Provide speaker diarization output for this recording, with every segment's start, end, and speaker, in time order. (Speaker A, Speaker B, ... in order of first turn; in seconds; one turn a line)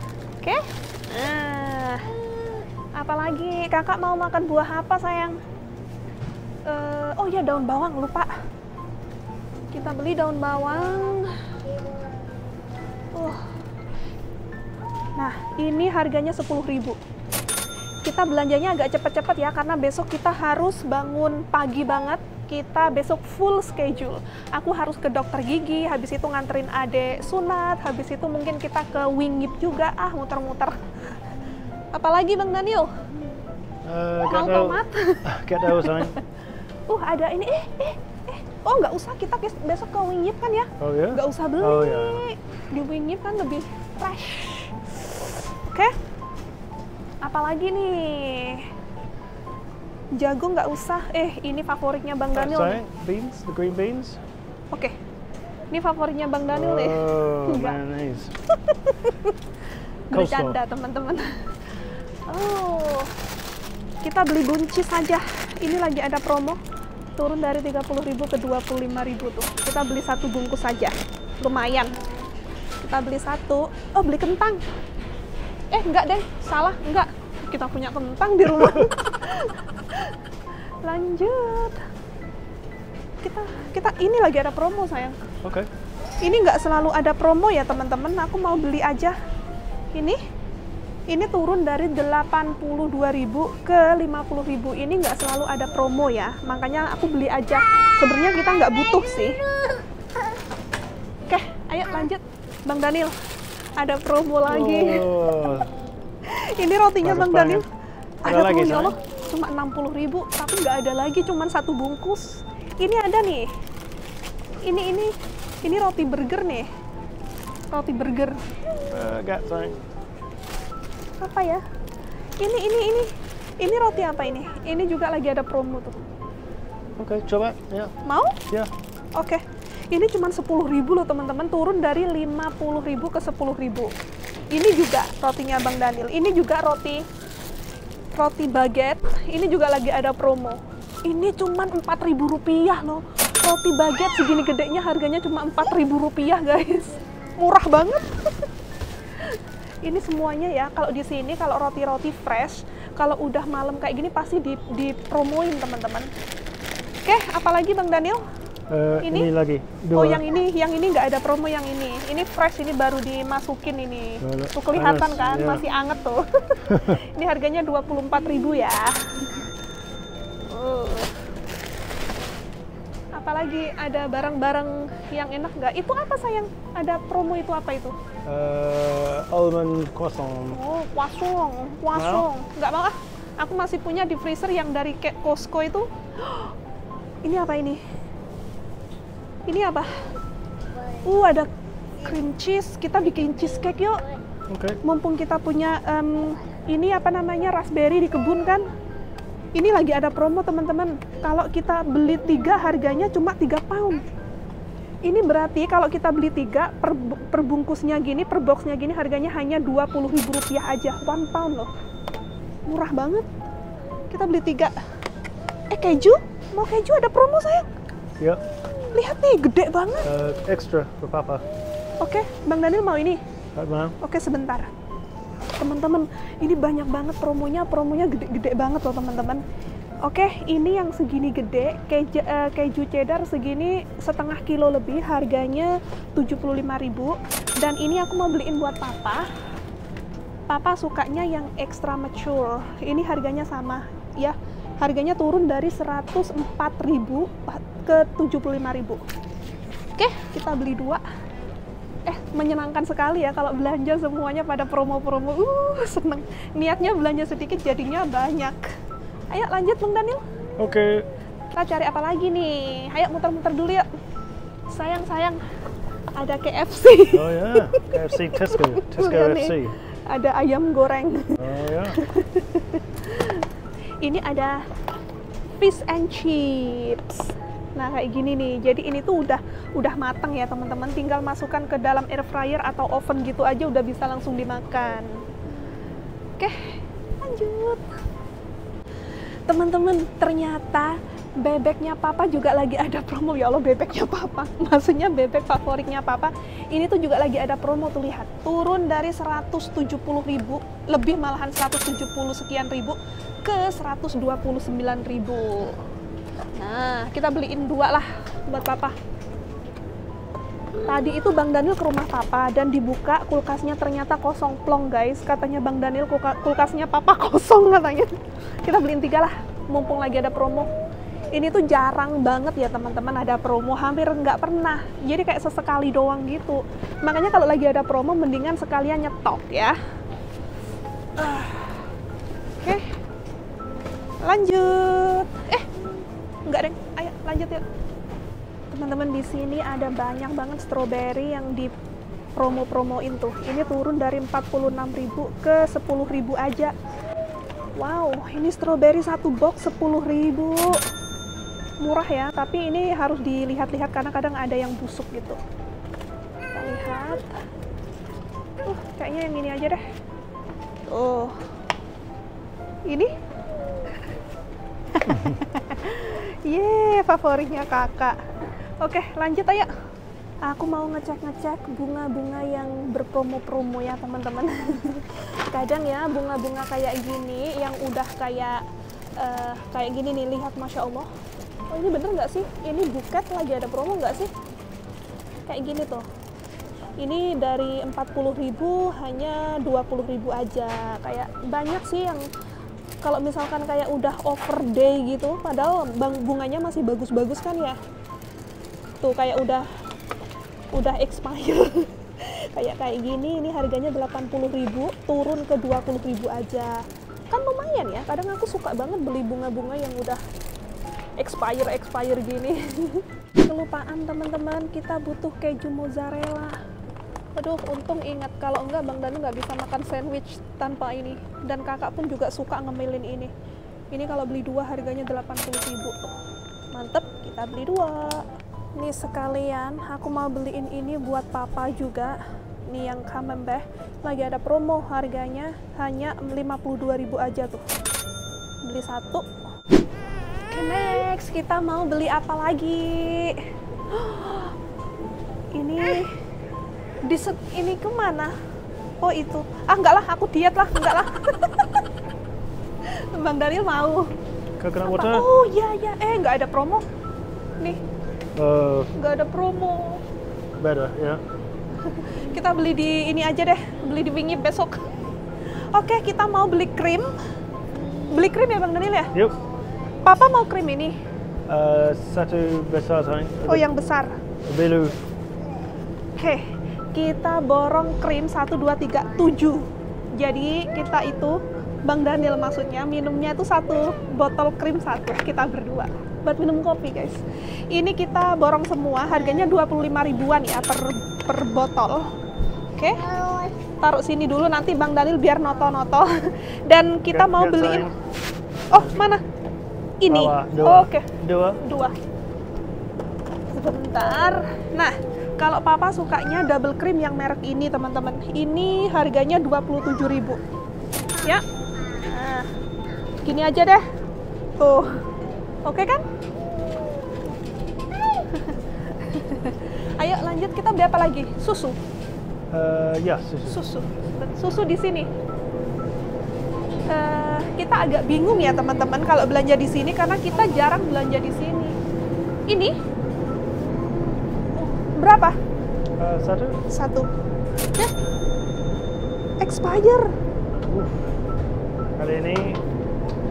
Speaker A: 0.4-2.1
Speaker A: 3.0-5.4
Speaker A: 6.7-8.3
Speaker A: 9.7-11.5
Speaker A: 13.1-13.5
Speaker A: 15.2-17.0
Speaker A: 18.0-31.1
Speaker A: 31.9-33.0
Speaker B: 33.8-36.1
Speaker A: 34.3-36.2
Speaker A: 36.9-45.9
Speaker B: 40.8-42.2
Speaker A: 47.2-48.7
Speaker A: 50.1-52.8
Speaker B: 52.3-54.2
Speaker A: 55.7-57.8
Speaker B: 56.5-58.3
Speaker A: 58.6-59.4
Speaker A: 60.1-61.4
Speaker B: 60.1-60.6
Speaker A: 62.3-63.1
Speaker A: 64.0-66.6
Speaker A: 67.2-71.9
Speaker A: 72.8-74.6
Speaker A: 75.7-80.2
Speaker B: 78.5-78.9
Speaker A: 80.8-81.8
Speaker A: 83.2-85.2
Speaker B: 85.4-85.7
Speaker A: 86.2-89.2
Speaker A: 89.9-90.2
Speaker A: 91.1-99.4
Speaker A: 101.3-103.1
Speaker A: 103.8-105.5
Speaker B: 104.5-105.7
Speaker A: 106.2-107.7
Speaker B: 107.0-107.7
Speaker A: 108.2-113.5
Speaker B: 108.2-108.9
Speaker A: 114.6-116.7
Speaker A: 117.7-118.4
Speaker B: 118.9-119.8
Speaker A: 121.2-121.6
Speaker A: 122.4-126.0
Speaker B: 127.0-127.9
Speaker A: 128.0-128.4
Speaker A: 129.1-133.9
Speaker A: 134.5-137.0
Speaker A: 138.1-148.5
Speaker A: 149.2-156.1
Speaker A: 157.0-158.2
Speaker B: 158.7-160.2
Speaker A: 159.0-159.3
Speaker A: 159.9-169.4
Speaker B: 164.2-165.6
Speaker B: 166.7-167.0
Speaker A: 170.5-171.1
Speaker A: 173.1-177.9
Speaker B: 178.3-180.6
Speaker A: 180.5-186.5
Speaker B: 181.9-182.2
Speaker A: 187.2-187.8
Speaker A: 189.5-190.1
Speaker A: 191.0-194.0
Speaker B: 194.5-194.8
Speaker A: 194.8-198.7
Speaker A: 199.5-204.1
Speaker A: 205.0-211.7
Speaker A: 212.7-213.3
Speaker A: 214.1-214.7
Speaker A: 215.7-217.7
Speaker A: 218.9-220.1
Speaker B: 220.0-221.4
Speaker A: 222.0-223.2
Speaker B: 223.5-223.9
Speaker A: 224.0-224.7
Speaker A: 225.6-229.4
Speaker A: 230.0-239.3
Speaker A: 240.5-249.0
Speaker A: 250.0-251.0
Speaker A: 252.1-258.7
Speaker A: 259.3-260.2
Speaker B: 260.6-261.1
Speaker A: 261.5-263.9
Speaker A: 264.7-265.4
Speaker A: 266.2-273.5
Speaker B: 267.1-269.7
Speaker B: 271.4-272.0
Speaker A: 274.0-274.6
Speaker A: 275.6-285.1
Speaker A: 286.4-287.8
Speaker A: 289.5-305.9
Speaker A: 306.6-308.9
Speaker A: 310.8-318.1
Speaker A: 318.6-320.7
Speaker A: 321.3-329.7
Speaker A: 331.2-331.9
Speaker A: 332.6-332.9
Speaker A: 334.2-335.7
Speaker A: 336.5-337.6
Speaker A: 338.7-341.7
Speaker A: 342.4-346.7
Speaker A: 347.8-350.8
Speaker A: 351.8-355.4
Speaker A: 356.5-357.3
Speaker A: 358.6-359.8
Speaker A: 360.9-361.4
Speaker A: 362.9-363.1
Speaker A: 364.9-368.2
Speaker A: 368.8-369.7
Speaker A: 370.4-378.6
Speaker A: 379.2-381.1
Speaker A: 381.7-384.3
Speaker A: 385.5-386.1
Speaker A: 387.0-392.2
Speaker A: 393.0-397.8
Speaker A: 399.0-399.7
Speaker A: 400.7-410.2
Speaker A: 411.2-416.6
Speaker A: 417.4-423.3
Speaker A: 423.9-426.1
Speaker A: 426.7-428.2
Speaker A: 428.8-432.2
Speaker A: 432.7-437.6
Speaker A: 438.6-439.3
Speaker A: 440.5-444.6
Speaker A: 445.5-446.1
Speaker A: 447.0-448.3
Speaker A: 449.0-451.9
Speaker A: 452.8-454.1
Speaker B: 454.6-455.3
Speaker A: 454.8-456.8
Speaker B: 458.4-458.9
Speaker A: 458.9-460.0
Speaker B: 460.6-461.2
Speaker A: 461.8-464.9
Speaker A: 465.4-467.1
Speaker A: 468.0-469.1
Speaker B: 469.1-469.4
Speaker A: 469.8-470.9
Speaker B: 471.5-473.7
Speaker A: 473.5-474.2
Speaker B: 474.4-475.0
Speaker A: 476.2-492.1
Speaker A: 492.7-497.9
Speaker B: 497.1-497.9
Speaker B: 498.7-499.0
Speaker A: 498.7-499.2
Speaker A: 500.0-502.0
Speaker B: 500.1-501.6
Speaker A: 503.5-510.4
Speaker A: 511.2-512.5
Speaker A: 513.2-513.9
Speaker A: 514.6-515.0
Speaker A: 515.6-516.0
Speaker A: 518.3-521.8
Speaker B: 522.5-523.6
Speaker A: 523.5-525.1
Speaker A: 526.9-531.7
Speaker A: 532.5-532.8
Speaker A: 534.5-535.4
Speaker B: 536.0-536.6
Speaker A: 536.7-537.1
Speaker A: 539.4-540.1
Speaker B: 540.5-541.1
Speaker B: 542.0-542.6